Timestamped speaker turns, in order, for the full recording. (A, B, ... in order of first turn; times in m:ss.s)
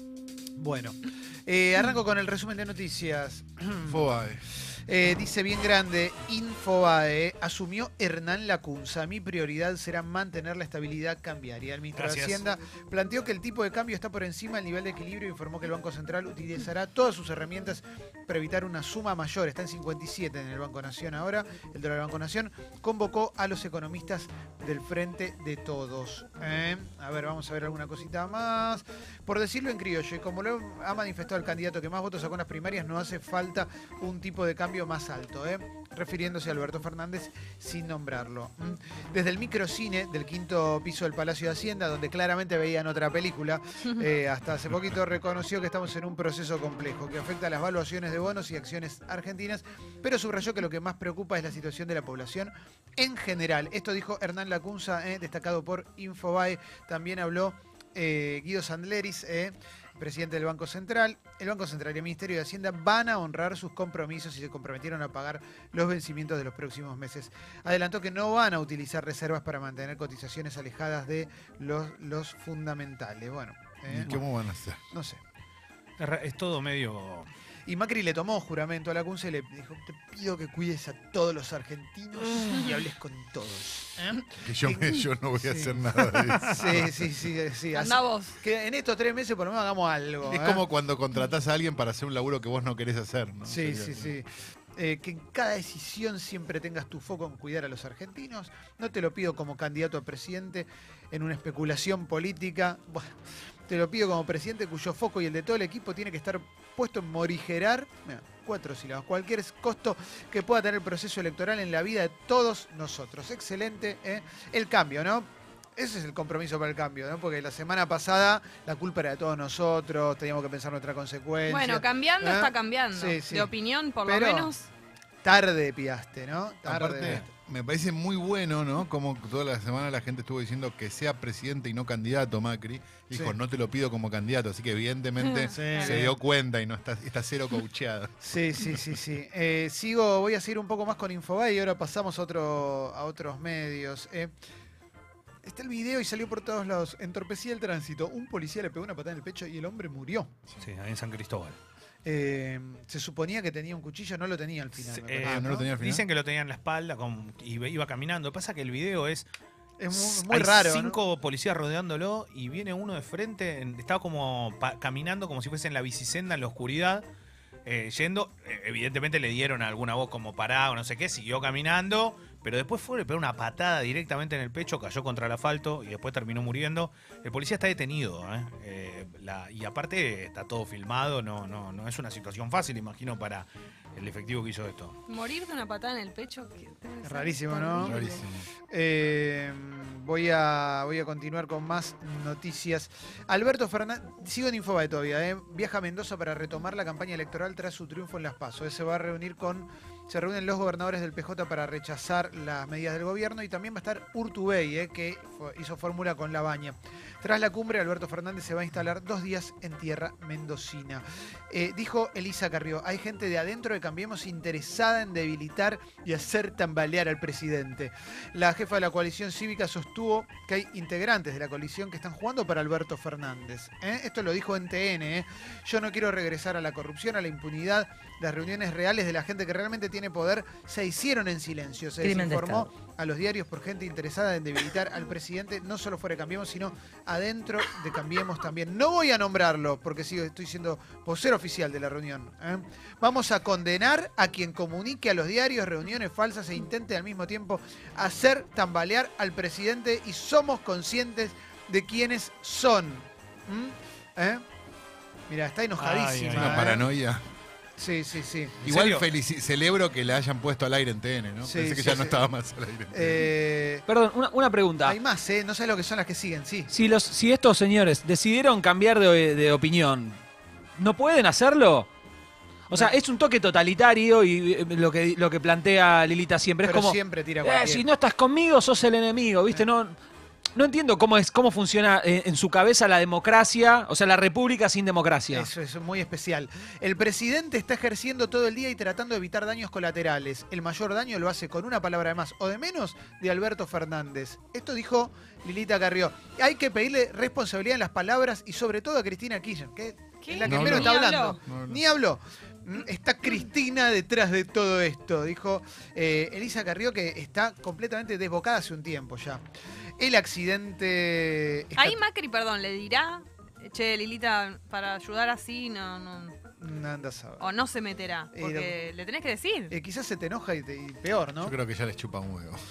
0:00.6-1:14.2 A
0:03.9-0:04.4 B
0:12.0-0:12.4 C
1:13.9-1:14.8 B
1:14.9-1:15.2 A
1:16.0-1:17.3 C
1:17.7-1:30.6 A
1:24.4-1:27.2 B
1:27.7-1:28.4 D
1:30.2-1:34.1 B
1:33.5-1:43.1 A
1:43.7-2:03.5 A
2:01.5-2:04.7 D
2:04.0-2:04.5 A
2:05.2-2:07.2 A
2:06.7-2:19.0 B
2:13.1-2:13.4 A
2:15.2-2:16.1 D
2:15.5-2:16.1 A
2:18.2-2:24.3 A
2:25.4-2:30.3 A
2:30.6-2:31.6 C
2:32.0-2:35.7 A
2:34.9-2:39.3 C
2:35.2-2:36.0 B
2:39.8-2:41.0 A
2:39.9-2:47.0 C
2:47.7-3:05.0 C
3:05.1-3:08.2 D
3:07.0-3:08.0 A
3:07.8-3:08.4 B
3:08.7-4:14.4 A
4:15.3-4:16.8 A
4:15.8-4:16.8 C
4:16.3-4:17.2 B
4:17.8-4:18.6 A
4:18.6-4:23.3 B
4:18.6-4:19.1 C
4:21.4-4:22.2 A
4:22.9-4:23.8 A
4:23.9-4:25.0 E
4:24.8-4:26.7 A
4:26.7-4:30.2 E
4:30.8-4:31.9 E
4:32.7-4:40.0 E
4:32.7-4:33.0 A
4:36.6-4:37.9 A
4:40.6-4:45.5 E
4:45.3-5:09.4 A
5:00.2-5:01.4 D
5:00.5-5:01.8 B
5:10.0-5:12.0 A
5:11.8-5:16.4 D
5:16.6-5:17.5 A
5:17.4-5:19.7 D
5:18.3-5:18.8 A
5:19.7-5:21.6 A
5:21.4-5:22.6 B